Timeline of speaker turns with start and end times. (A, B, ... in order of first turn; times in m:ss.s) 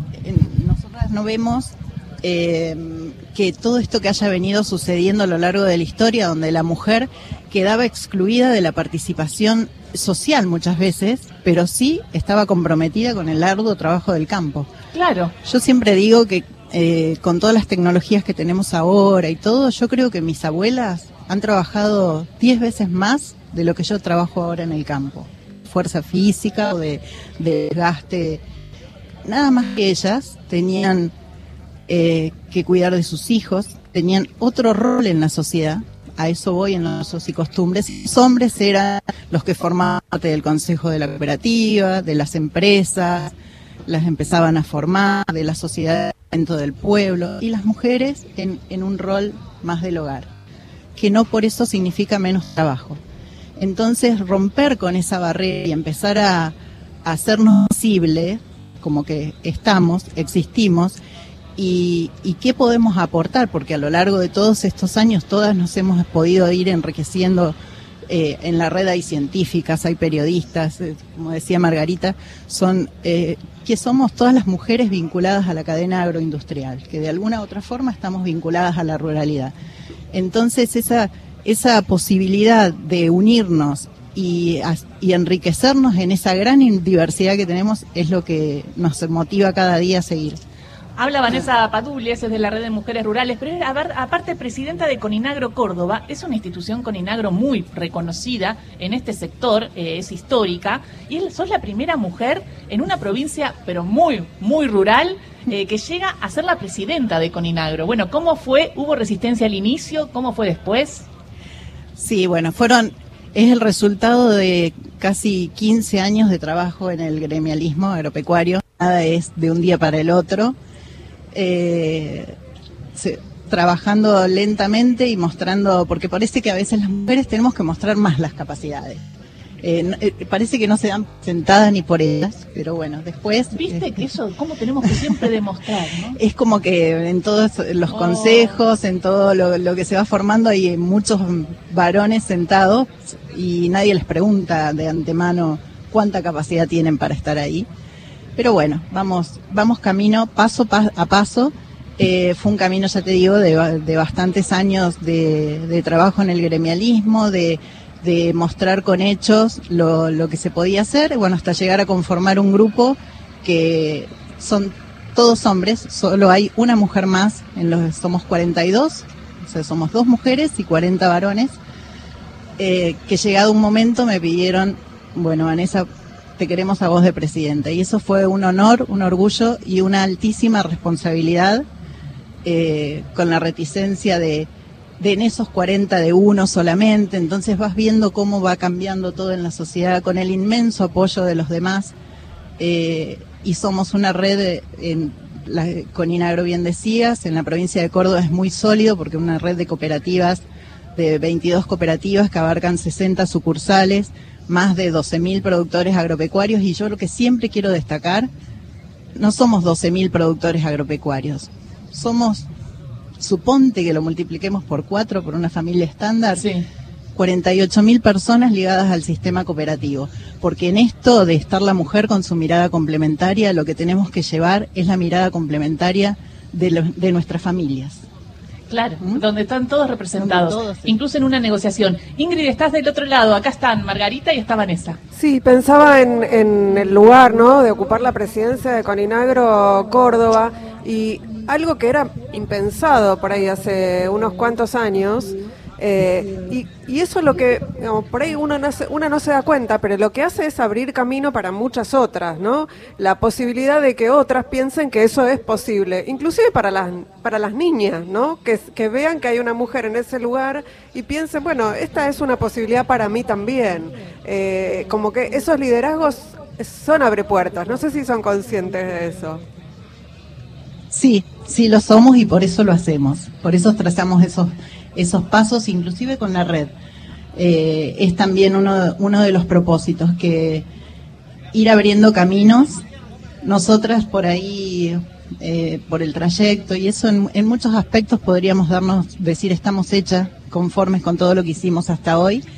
0:00.2-0:14.7 A
0:14.9-0:15.3 B
0:15.4-0:28.4 A
0:29.2-0:31.1 A
0:31.9-0:43.3 A
0:43.9-0:50.3 A
0:51.0-0:53.0 A
0:53.6-1:01.0 A
1:01.6-1:07.6 A
1:08.1-1:19.5 A
1:20.1-1:30.4 A
1:31.0-1:51.1 B
1:52.0-2:00.6 A
2:01.3-2:02.4 A
2:03.0-2:09.0 A
2:09.6-2:14.0 A
2:13.5-2:16.2 B
2:16.2-2:27.7 A
2:17.9-2:18.6 B
2:28.4-2:51.6 A
2:52.6-2:55.9 A
2:56.4-3:01.6 A
3:02.4-3:04.5 A
3:05.0-3:12.0 A
3:12.6-3:20.4 A
3:21.0-3:28.3 A
3:29.2-3:32.5 A
3:33.2-3:36.5 A
3:36.4-3:36.7 B
3:37.2-3:48.0 A
3:48.7-3:55.0 B
3:49.0-3:49.2 A
3:50.2-3:51.0 A
3:55.2-4:29.4 C
4:30.9-4:36.7 A
4:37.3-4:40.7 A
4:41.5-4:42.8 A
4:43.4-4:52.4 A